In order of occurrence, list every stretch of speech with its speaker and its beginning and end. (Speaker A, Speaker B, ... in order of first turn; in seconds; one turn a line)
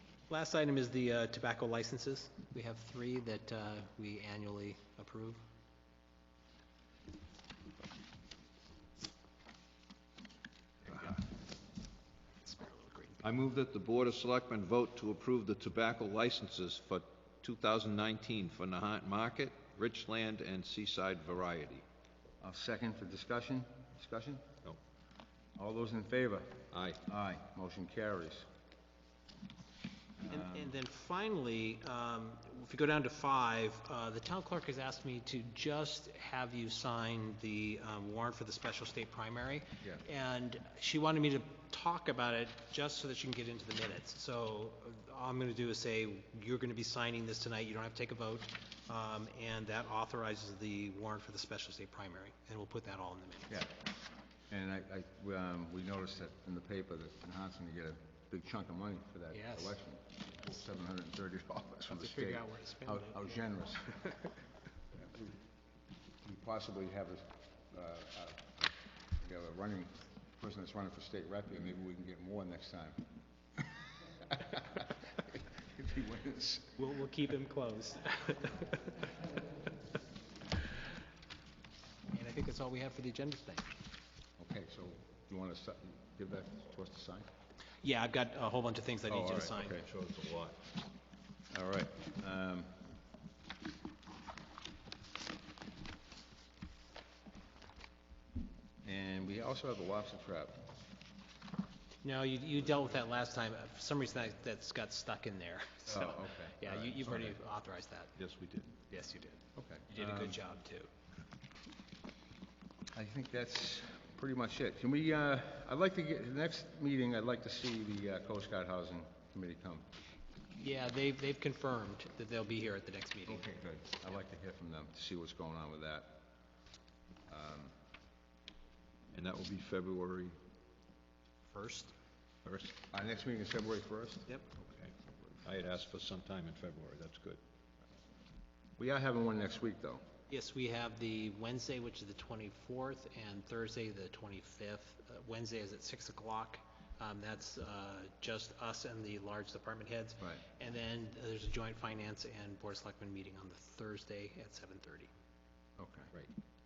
Speaker A: 0.3-5.4
Speaker A: 12.4-13.2
Speaker B: 13.2-21.9
Speaker C: 22.4-24.4
Speaker C: 25.6-28.5
Speaker B: 26.7-27.0
Speaker C: 30.2-30.8
Speaker A: 30.3-53.7
Speaker C: 53.5-53.7
Speaker C: 54.5-64.1
Speaker A: 59.3-59.8
Speaker A: 61.9-63.4
Speaker C: 65.0-65.3
Speaker C: 66.2-73.0
Speaker C: 74.2-76.8
Speaker A: 76.8-79.0
Speaker A: 82.1-83.7
Speaker C: 84.4-87.3
Speaker A: 87.8-89.8
Speaker C: 89.1-89.9
Speaker B: 89.8-90.6
Speaker C: 91.5-92.7
Speaker C: 98.8-100.6
Speaker A: 102.0-108.1
Speaker C: 105.9-107.4
Speaker B: 108.2-108.8
Speaker A: 108.9-110.9
Speaker C: 109.6-110.4
Speaker C: 112.9-119.9
Speaker A: 120.6-123.5
Speaker C: 123.3-126.2
Speaker C: 127.3-127.8
Speaker B: 129.1-130.4
Speaker A: 131.5-131.9
Speaker B: 132.4-132.9
Speaker C: 132.9-134.4
Speaker B: 134.6-137.4
Speaker C: 138.8-140.1
Speaker A: 140.3-155.1
Speaker C: 155.8-156.1